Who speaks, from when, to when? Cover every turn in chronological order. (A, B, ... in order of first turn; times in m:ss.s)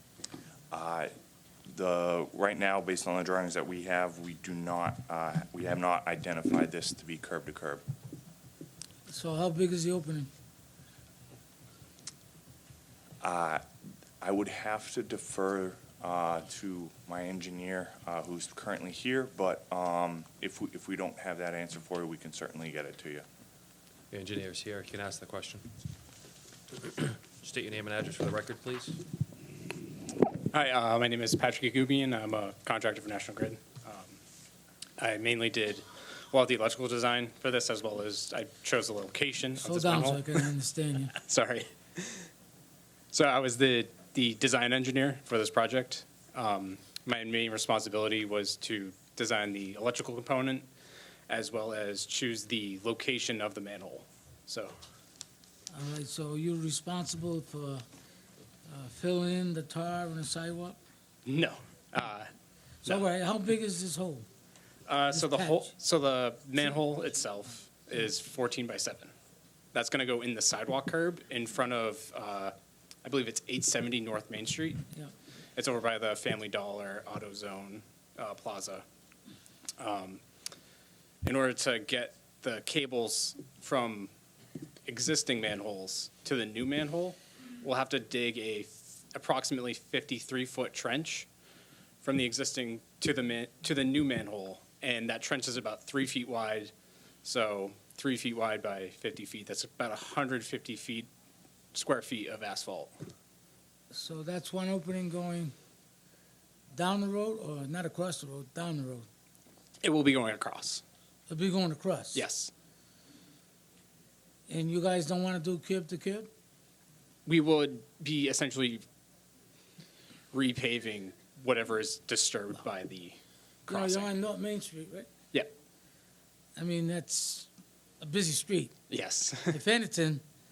0:00.7-0:01.1 A
0:01.7-0:07.8 A
0:09.1-0:10.3 B
0:13.2-0:13.6 A
0:14.2-0:23.3 A
0:24.1-0:25.6 C
0:26.9-0:29.0 C
0:30.5-0:34.2 D
0:35.0-0:40.4 D
0:39.6-0:41.2 B
0:41.2-0:42.3 D
0:43.1-0:50.7 D
0:51.3-0:54.7 D
0:55.7-0:57.8 B
0:58.7-1:00.8 B
1:01.3-1:02.3 D
1:02.8-1:04.3 B
1:04.9-1:09.1 D
1:05.2-1:05.7 B
1:09.7-1:14.8 D
1:15.6-1:18.8 D
1:19.8-1:20.2 D
1:21.2-1:24.1 D
1:24.9-1:31.3 D
1:32.0-1:36.7 D
1:37.2-1:41.1 D
1:41.7-1:42.9 D
1:43.9-1:45.6 B
1:46.7-1:49.1 B
1:49.8-1:50.8 D
1:51.3-1:52.2 B
1:52.1-1:52.5 D
1:54.5-1:56.3 B
1:57.3-1:58.8 D
2:00.3-2:04.2 D
2:03.7-2:05.1 B
2:06.6-2:07.5 B
2:08.0-2:08.8 B
2:08.9-2:09.6 D
2:09.5-2:10.2 B